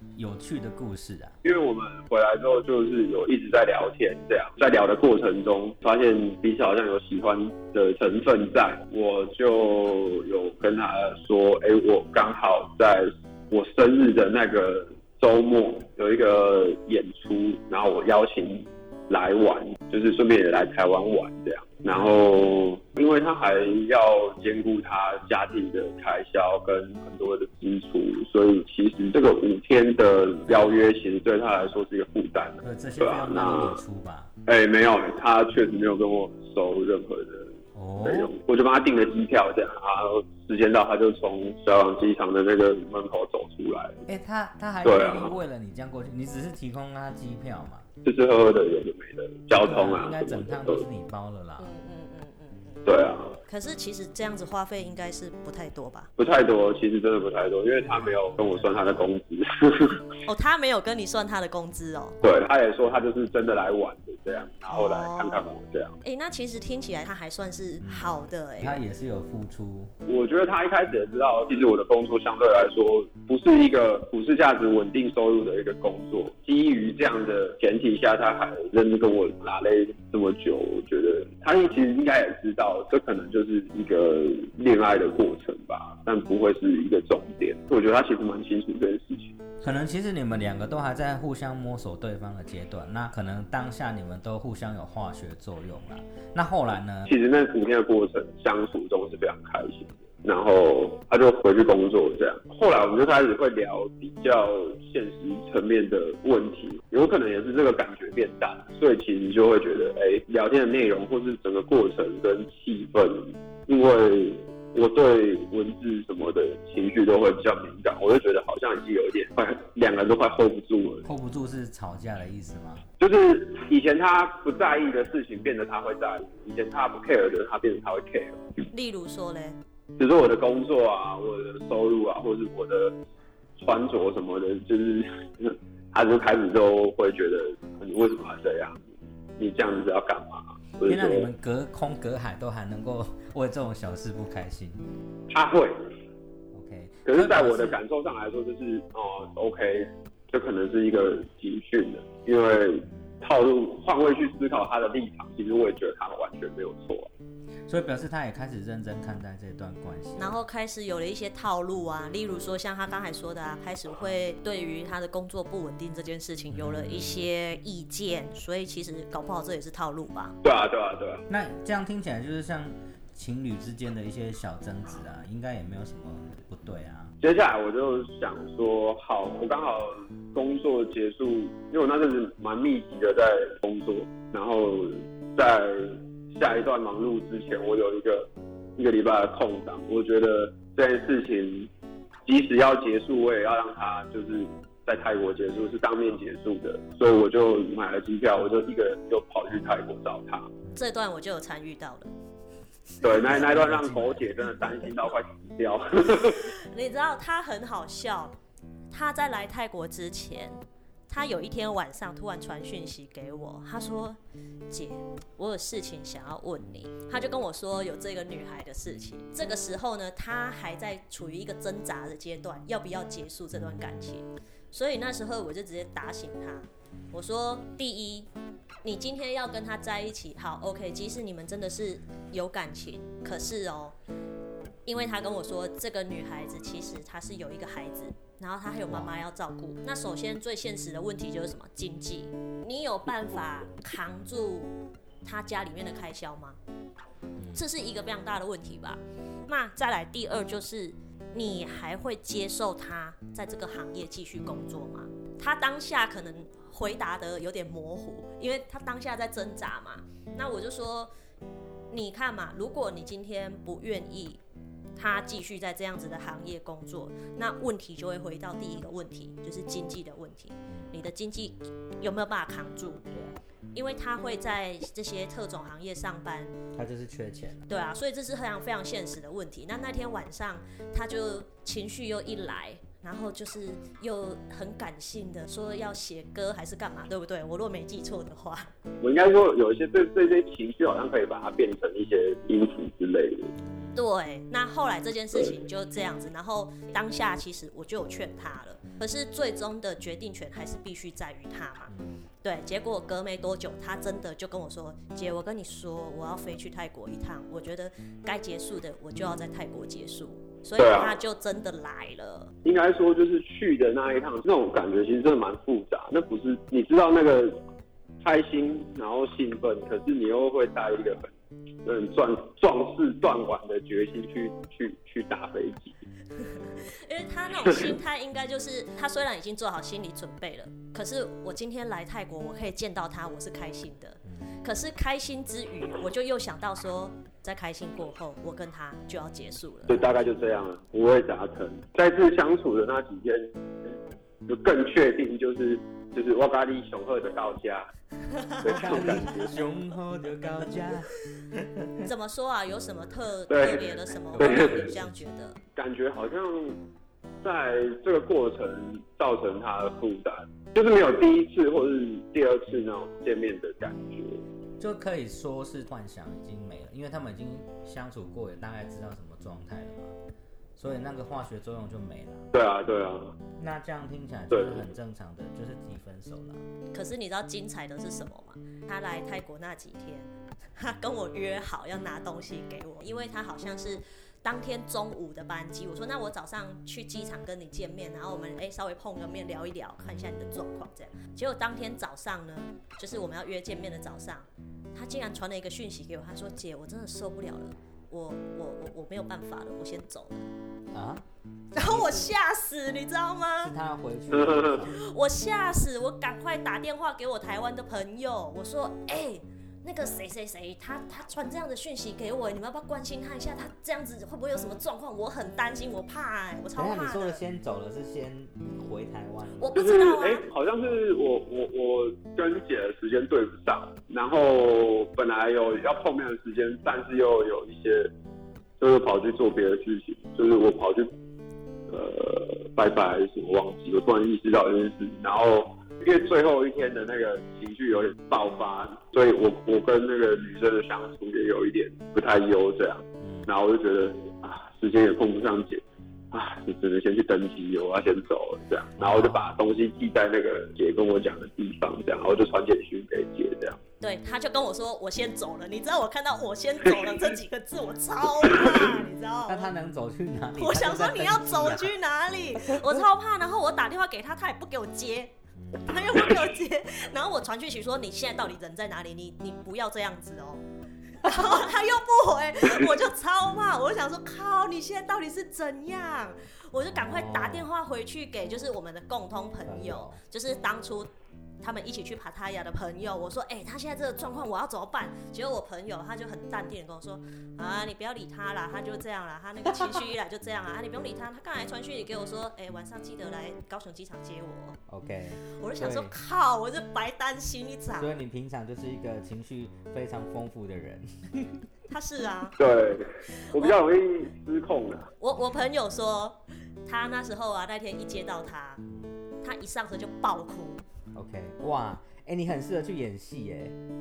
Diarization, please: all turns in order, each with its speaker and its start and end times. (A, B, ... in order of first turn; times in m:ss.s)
0:00.2-0:01.4 A
0:01.4-0:33.8 B
0:30.5-0:30.9 A
0:32.6-0:34.3 A
0:34.5-0:44.0 B
0:37.8-0:38.3 A
0:44.1-0:47.9 A
0:44.8-0:45.4 B
0:48.0-0:50.8 B
0:49.5-0:51.7 A
0:51.6-0:52.8 C
0:52.9-0:53.4 B
0:53.5-0:56.1 C
0:56.2-1:00.0 B
0:57.8-0:59.1 A
1:00.3-1:02.2 C
1:02.2-1:06.0 B
1:04.7-1:05.4 C
1:06.0-1:08.8 C
1:07.8-1:09.9 A
1:10.1-1:29.5 B
1:29.6-1:37.1 A
1:37.1-2:01.0 B
2:01.0-2:02.9 A
2:03.0-2:08.4 B
2:08.7-2:09.6 C
2:10.0-2:13.0 B
2:13.6-2:21.3 B
2:20.8-2:24.8 A
2:25.3-2:25.8 B
2:26.5-2:27.8 A
2:27.1-2:37.1 B
2:37.7-2:40.4 A
2:40.2-2:50.4 C
2:46.5-2:47.2 A
2:50.4-2:51.2 B
2:51.3-2:57.1 A
2:57.2-3:11.7 B
3:12.3-3:20.5 B
3:20.8-3:22.1 C
3:23.0-3:26.5 B
3:23.2-3:24.9 A
3:26.2-3:28.4 C
3:28.9-3:34.2 C
3:34.7-3:48.3 C
3:48.8-3:54.0 C
3:54.9-4:04.7 C
3:58.9-3:59.2 A
4:05.2-4:06.6 C
4:07.4-4:07.6 A
4:07.5-4:21.1 C
4:20.3-4:20.5 A
4:21.9-4:24.4 C
4:25.0-4:33.0 C
4:33.1-4:33.4 A
4:33.7-4:36.6 C
4:36.7-4:37.7 A
4:37.7-4:48.7 C
4:49.0-4:53.5 B
4:53.6-4:54.0 A
4:54.0-5:01.9 C
5:01.9-5:02.3 A
5:02.4-5:12.5 C
5:10.8-5:11.2 B
5:12.6-5:17.6 B
5:18.2-5:21.3 B
5:21.8-5:26.0 B
5:26.4-5:40.0 C
5:34.3-5:34.5 A
5:39.9-5:44.0 B
5:44.5-5:47.9 B
5:48.5-5:49.0 C
5:48.6-5:49.6 B
5:48.7-5:51.9 A
5:52.0-5:55.6 C
5:53.5-5:54.9 B
5:54.4-5:55.2 A
5:55.8-5:56.8 B
5:57.4-6:04.4 B
6:04.8-6:10.2 A
6:10.8-6:12.5 A
6:12.5-6:13.4 B
6:13.6-6:16.6 A
6:14.5-6:14.8 B
6:16.9-6:40.4 C
6:40.9-6:42.3 A
6:41.8-6:43.7 C
6:43.6-6:45.0 A
6:44.9-6:57.4 C
6:56.8-6:59.8 A
6:59.6-7:00.4 C
6:59.7-7:08.1 B
7:08.8-7:11.1 B
7:11.9-7:33.8 B
7:23.2-7:23.5 A
7:29.0-7:29.5 A
7:34.0-7:39.7 C
7:39.5-7:42.0 A
7:40.6-7:50.6 C
7:51.2-8:01.1 C
7:56.9-7:57.7 A
7:59.6-8:00.2 A
8:01.6-8:14.8 C
8:14.9-8:16.2 A
8:15.6-8:18.1 C
8:17.9-8:21.6 A
8:21.9-8:22.6 C
8:22.6-8:25.1 B
8:23.5-8:23.8 C
8:25.2-8:28.8 C
8:29.4-8:30.8 C
8:31.1-8:33.8 A